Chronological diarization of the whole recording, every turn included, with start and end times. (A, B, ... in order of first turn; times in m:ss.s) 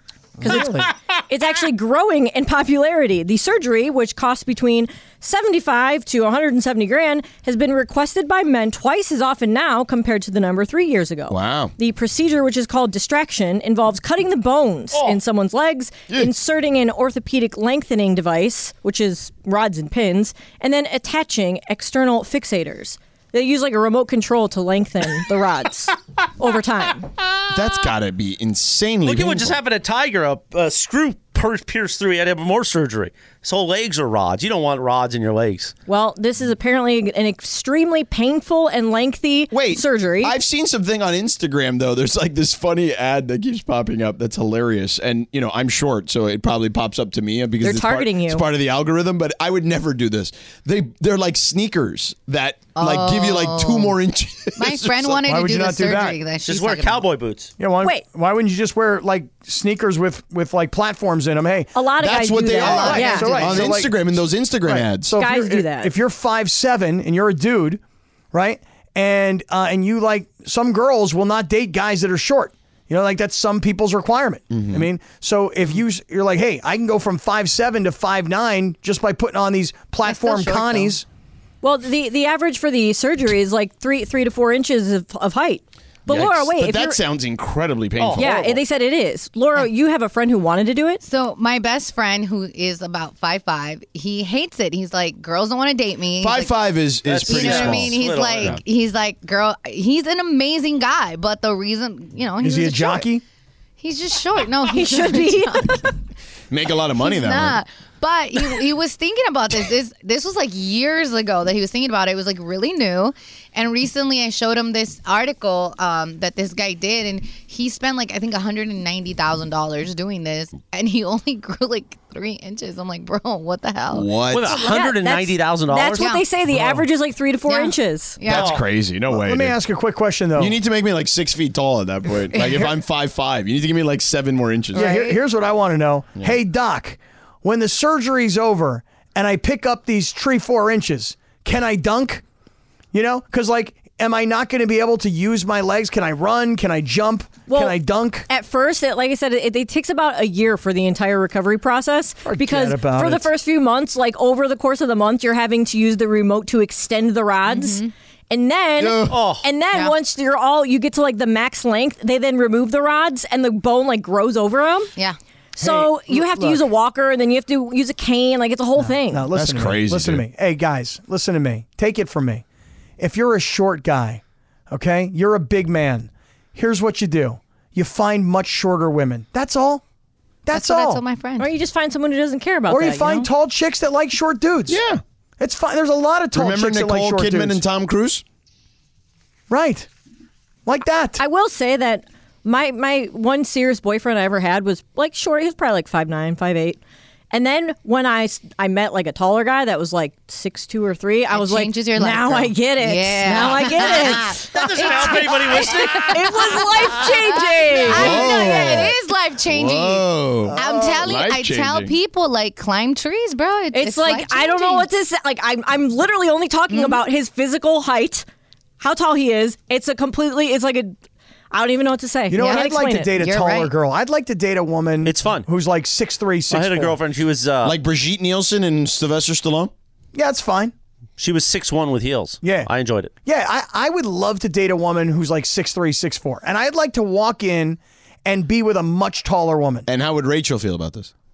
0:00.4-0:00.9 A
0:00.4-0:27.1 B
0:11.3-0:11.7 C
0:27.5-0:29.6 C
0:29.0-0:35.7 D
0:35.9-0:40.4 B
0:39.5-0:55.2 C
0:47.6-0:48.4 B
0:52.8-0:54.0 E
0:54.6-0:57.1 E
0:55.3-0:56.2 A
0:56.4-0:57.5 D
0:57.6-1:01.7 A
1:01.8-1:03.6 B
1:02.0-1:05.2 C
1:02.6-1:07.8 A
1:02.6-1:03.6 E
1:05.2-1:05.9 B
1:08.3-1:21.0 A
1:14.5-1:14.9 C
1:20.0-1:21.0 E
1:21.6-1:27.0 B
1:26.1-1:28.5 C
1:28.0-1:28.6 D
1:28.2-1:31.0 B
1:31.0-1:36.6 E
1:36.2-1:38.6 C
1:37.1-1:38.6 D
1:37.2-1:43.1 E
1:42.4-1:43.2 A
1:43.8-1:45.9 E
1:44.7-1:45.8 B
1:46.5-1:47.6 C
1:47.0-2:04.2 E
2:03.9-2:04.5 C
2:04.3-2:06.1 D
2:04.5-2:08.2 B
2:06.0-2:06.3 E
2:07.5-2:08.6 E
2:08.3-2:08.6 D
2:08.3-2:09.6 C
2:09.1-2:10.6 A
2:10.4-2:14.9 C
2:12.3-2:12.7 E
2:14.7-2:15.2 E
2:14.7-2:22.2 A
2:22.9-2:28.3 A
2:27.5-2:27.8 B
2:28.3-2:44.9 B
2:32.2-2:33.3 A
2:37.5-2:37.9 E
2:38.8-2:39.2 C
2:39.1-2:39.4 D
2:45.6-2:49.3 B
2:45.6-2:46.6 A
2:48.8-2:52.4 A
2:49.3-2:50.2 C
2:53.0-2:59.8 A
3:00.5-3:01.0 A
3:00.5-3:01.5 E
3:01.4-3:03.3 B
3:02.7-3:04.8 A
3:04.7-3:05.0 C
3:05.4-3:07.6 A
3:06.3-3:08.2 C
3:09.5-3:09.9 A
3:10.7-3:11.2 A
3:11.2-3:16.8 B
3:17.3-3:28.9 B
3:21.3-3:34.9 E
3:24.5-3:26.5 D
3:27.9-3:31.9 C
3:33.7-3:38.3 B
3:36.7-3:37.0 E
3:38.8-3:41.0 B
3:41.5-3:43.1 B
3:42.3-3:47.0 A
3:42.4-3:43.7 E
3:45.0-3:45.5 D
3:46.5-3:47.8 D
3:47.6-3:49.7 C
3:50.1-3:50.7 A
3:51.2-3:53.1 D
3:52.4-3:52.7 A
3:53.2-3:59.9 A
3:59.9-4:01.1 C